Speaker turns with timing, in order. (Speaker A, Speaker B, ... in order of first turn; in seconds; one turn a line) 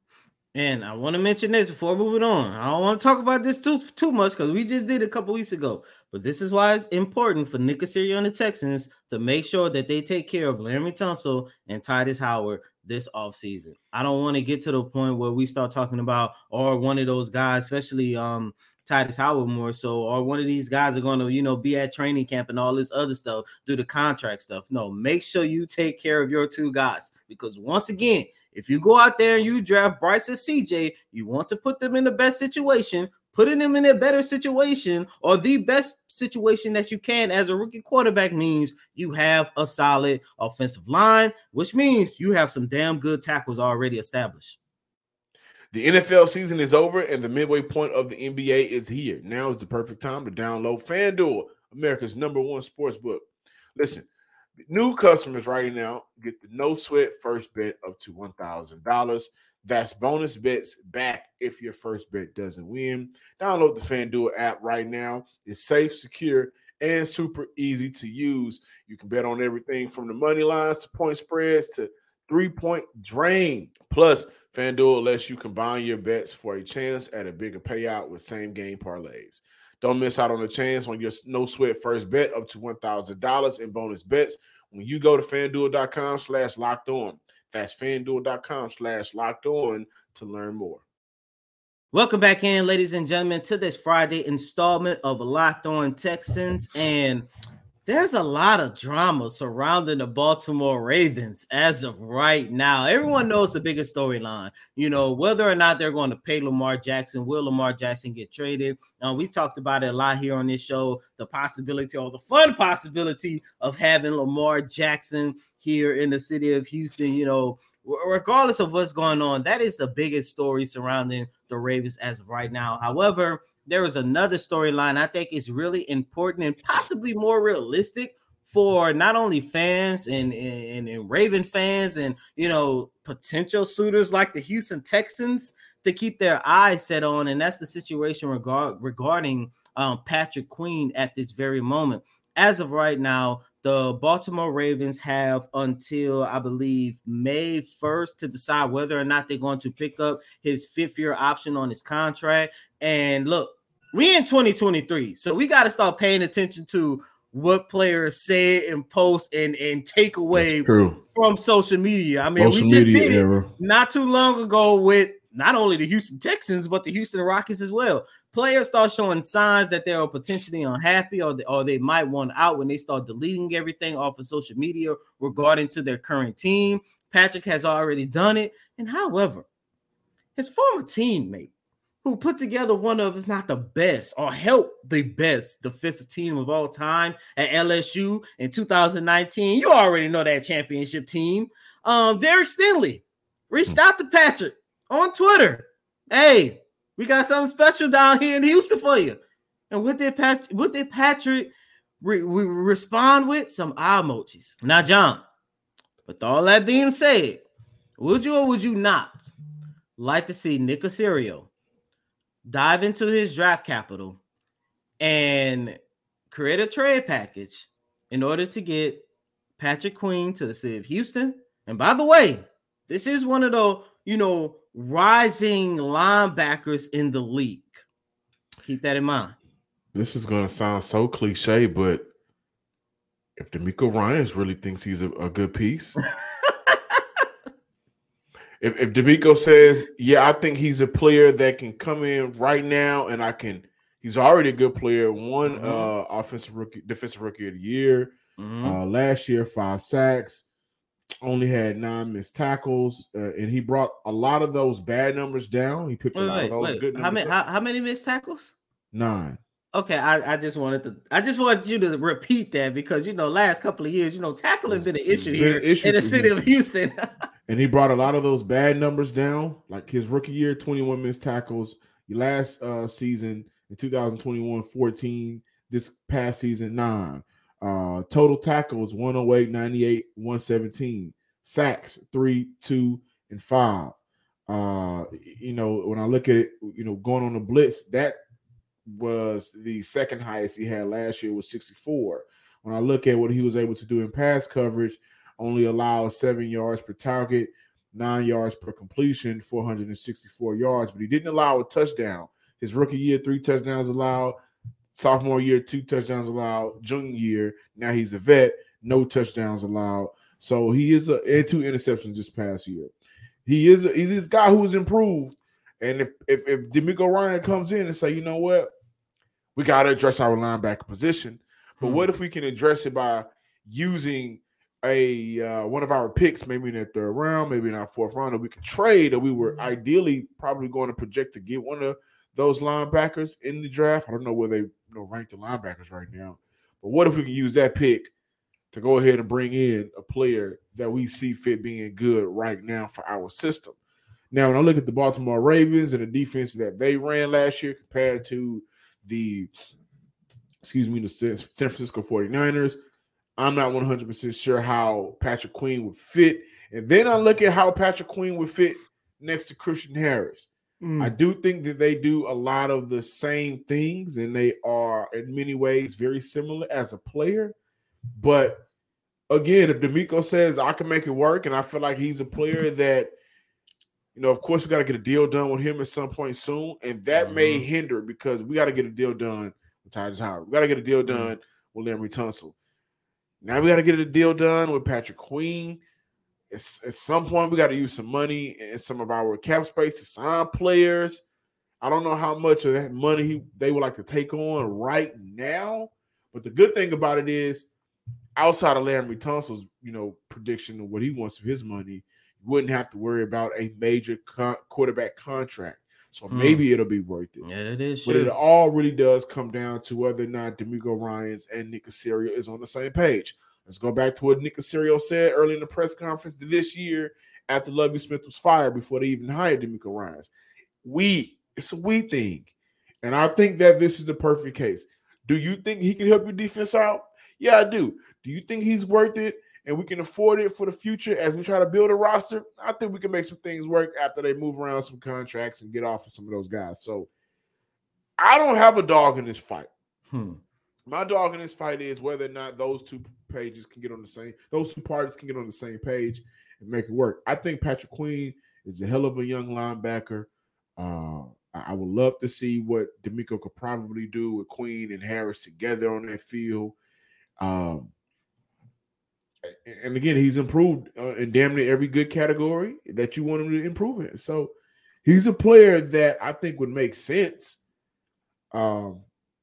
Speaker A: 0.6-44.6
Speaker B: 45.7-53.2
Speaker B: 53.8-54.1
Speaker B: 54.7-90.8
Speaker A: 91.9-97.3
Speaker A: 97.9-179.5
Speaker B: 160.3-161.0
Speaker B: 162.4-163.5
Speaker A: 180.4-181.5
Speaker A: 182.0-205.2
Speaker A: 206.1-207.4
Speaker A: 208.0-209.3
Speaker A: 210.0-211.5
Speaker A: 212.5-214.2
Speaker A: 215.0-215.8
Speaker A: 216.3-219.0
Speaker A: 219.6-227.8
Speaker A: 228.6-229.4
Speaker B: 229.9-232.1
Speaker B: 233.4-236.0
Speaker A: 236.4-237.0
Speaker B: 238.6-250.4
Speaker A: 245.5-245.9
Speaker A: 248.4-248.8
Speaker B: 251.2-257.3
Speaker A: 256.1-258.5
Speaker B: 258.9-259.4
Speaker A: 259.7-267.1
Speaker B: 264.7-266.4
Speaker B: 267.5-283.9
Speaker B: 284.5-288.2
Speaker B: 288.9-304.4
Speaker B: 304.9-312.9
Speaker B: 313.4-318.7
Speaker B: 319.6-338.1
Speaker A: 321.8-322.1
Speaker B: 338.7-343.8
Speaker B: 344.3-349.5
Speaker B: 350.6-352.8
Speaker B: 353.4-367.6
Speaker A: 360.8-361.1
Speaker B: 368.2-368.6
Speaker B: 369.3-373.1
Speaker B: 374.1-382.6
Speaker A: 377.1-377.7
Speaker A: 381.1-381.3
Speaker B: 383.4-385.8
Speaker B: 386.5-391.2
Speaker B: 391.8-397.7
Speaker B: 398.4-407.4
Speaker A: 406.3-406.6
Speaker A: 407.4-408.3
Speaker B: 408.1-420.3
Speaker B: 420.8-422.5
Speaker B: 423.0-437.1
Speaker B: 438.2-439.7
Speaker A: 440.1-440.4
Speaker B: 440.9-456.8
Speaker B: 457.4-457.9
Speaker B: 459.5-464.5
Speaker B: 465.1-467.6
Speaker B: 468.5-469.1